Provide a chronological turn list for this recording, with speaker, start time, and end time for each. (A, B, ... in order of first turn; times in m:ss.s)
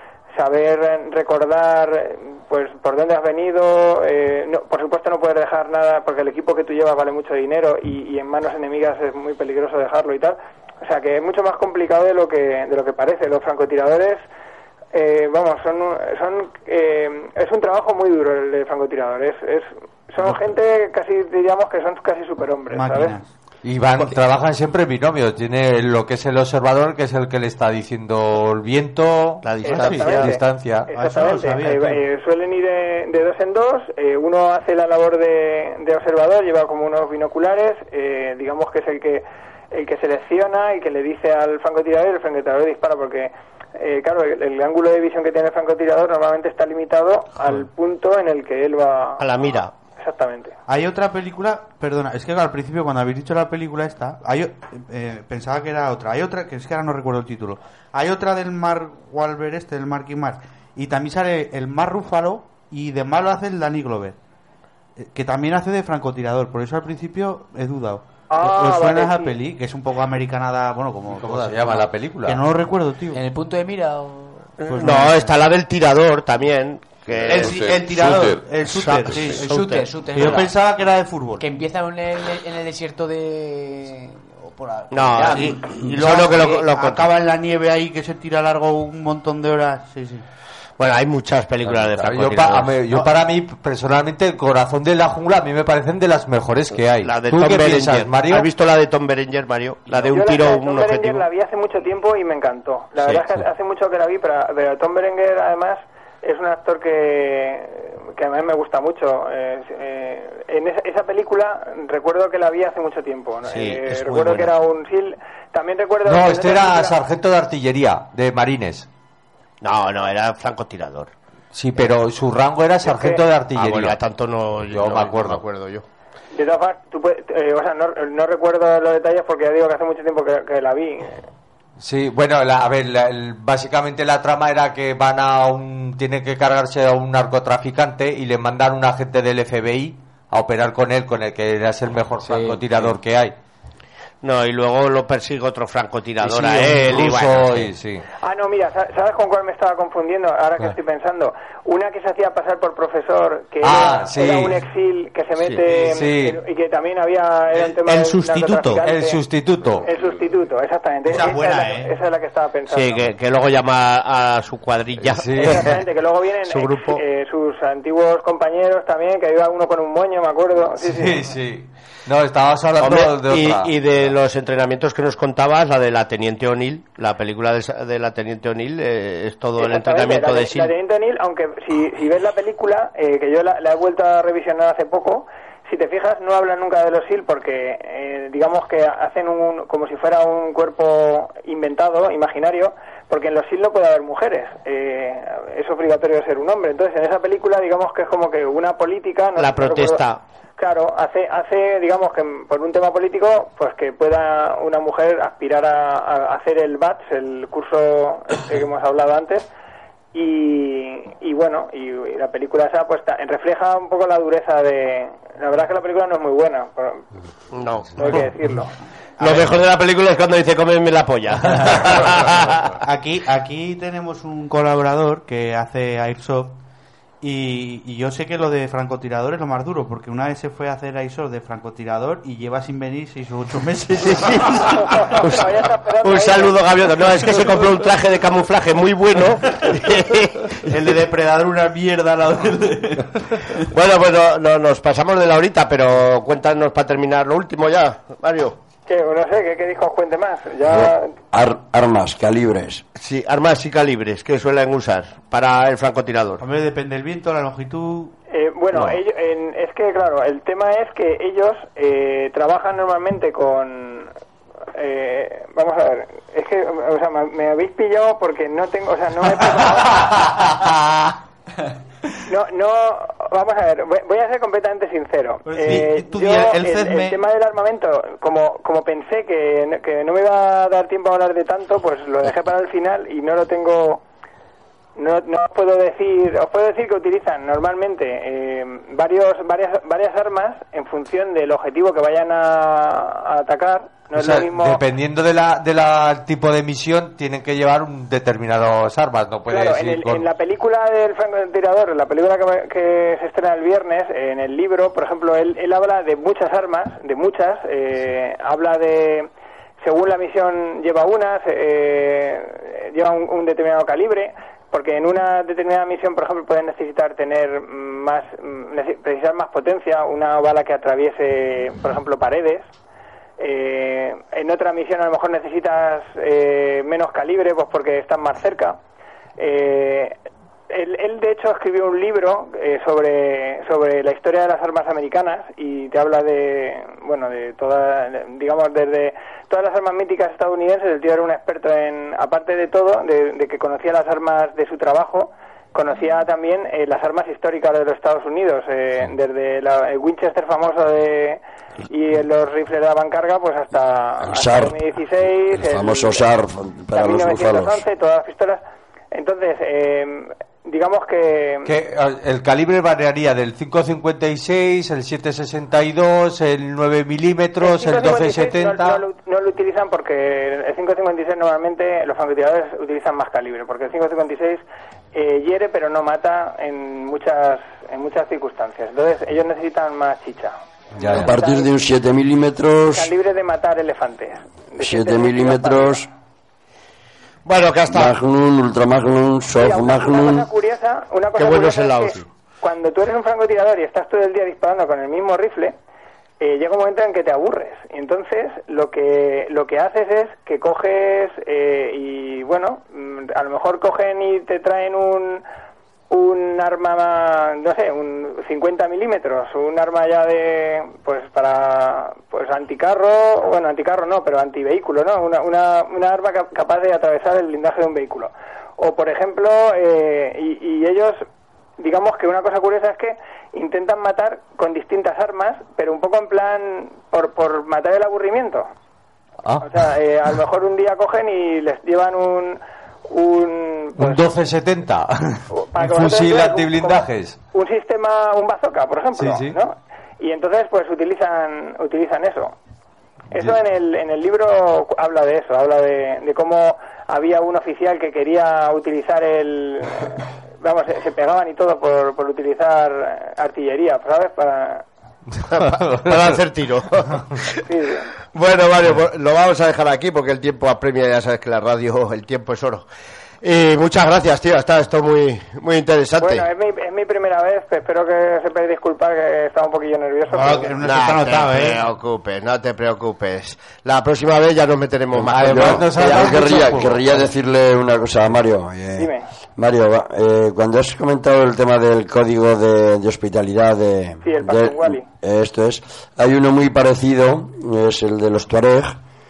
0:00.3-0:14.2 A
0:14.9-0:23.2 A
0:22.7-0:23.3 B
0:23.6-0:30.9 C
0:29.4-0:30.3 D
0:29.6-0:50.6 A
0:29.7-0:30.2 B
0:30.9-0:32.0 B
0:49.2-0:49.7 D
0:50.7-1:04.2 B
1:05.0-1:13.2 B
1:08.3-1:09.4 A
1:11.1-1:12.4 C
1:13.1-1:14.6 E
1:14.6-1:19.4 D
1:14.6-1:15.3 B
1:17.2-1:21.4 B
1:19.3-1:20.7 E
1:21.4-1:26.3 E
1:24.9-1:27.0 D
1:25.2-1:30.2 B
1:30.8-1:33.0 D
1:31.6-1:38.5 C
1:37.0-1:41.2 D
1:40.1-1:57.0 A
1:53.5-1:54.5 D
1:56.0-1:58.9 C
1:59.6-2:01.1 D
2:01.5-2:04.0 C
2:02.8-2:03.2 A
2:03.5-2:05.8 D
2:04.7-2:05.4 C
2:06.3-2:11.3 A
2:11.8-2:23.3 C
2:24.2-2:27.7 D
2:26.2-2:28.0 C
2:28.2-2:39.2 A
2:33.6-2:34.6 C
2:35.5-2:36.4 C
2:37.5-2:38.8 B
2:38.8-2:39.9 C
2:39.8-2:43.0 A
2:41.1-2:41.9 B
2:42.7-2:45.8 D
2:45.0-2:45.7 C
2:45.4-2:51.2 A
2:46.5-2:47.0 D
2:50.8-2:53.7 C
2:52.8-3:00.7 D
2:59.6-3:20.0 A
3:19.4-3:20.2 D
3:20.6-3:29.5 A
3:30.1-3:37.1 A
3:37.5-3:38.3 D
3:37.9-3:38.7 A
3:39.2-3:39.6 B
3:39.2-3:42.7 D
3:42.7-3:46.6 B
3:47.2-3:54.9 B
3:54.7-3:56.7 A
3:55.2-3:55.4 D
3:56.0-4:00.7 D
3:59.5-4:03.7 B
4:03.7-4:08.6 D
4:08.9-4:11.1 A
4:10.7-4:12.8 F
4:13.0-4:16.4 D
4:16.4-4:18.1 B
4:18.3-4:24.1 A
4:18.7-4:19.0 D
4:24.7-4:30.2 A
4:30.0-4:30.6 C
4:32.2-4:44.0 A
4:35.4-4:37.2 B
4:45.0-4:54.8 A
4:54.2-5:00.3 C
4:59.5-5:09.3 A
5:09.8-5:22.7 A
5:23.4-5:28.8 A
5:29.4-5:30.2 A
5:30.7-5:56.3 A
5:54.2-5:54.8 F
5:55.5-5:57.8 F
5:56.9-6:01.7 A
6:01.6-6:09.0 C
6:07.6-6:21.7 A
6:21.0-6:21.3 C
6:21.1-6:23.1 F
6:22.9-6:26.0 A
6:24.8-6:26.1 F
6:27.4-6:28.1 D
6:27.9-6:30.5 F
6:29.6-6:35.7 A
6:31.4-6:32.3 D
6:36.4-6:45.4 A
6:46.1-7:01.2 A
7:01.8-7:08.7 A
7:09.6-7:14.2 A
7:14.0-7:17.4 C
7:15.5-7:22.5 A
7:19.2-7:19.6 C
7:23.3-7:34.8 A
7:35.5-7:37.6 D
7:35.7-7:36.4 C
7:37.6-7:38.1 A
7:38.3-7:42.8 D
7:43.4-7:46.4 D
7:46.2-7:50.8 A
7:50.3-7:51.8 B
7:50.8-7:56.6 D
7:55.1-7:57.3 C
7:55.4-8:09.0 F
7:59.0-7:59.2 A
8:04.2-8:05.0 A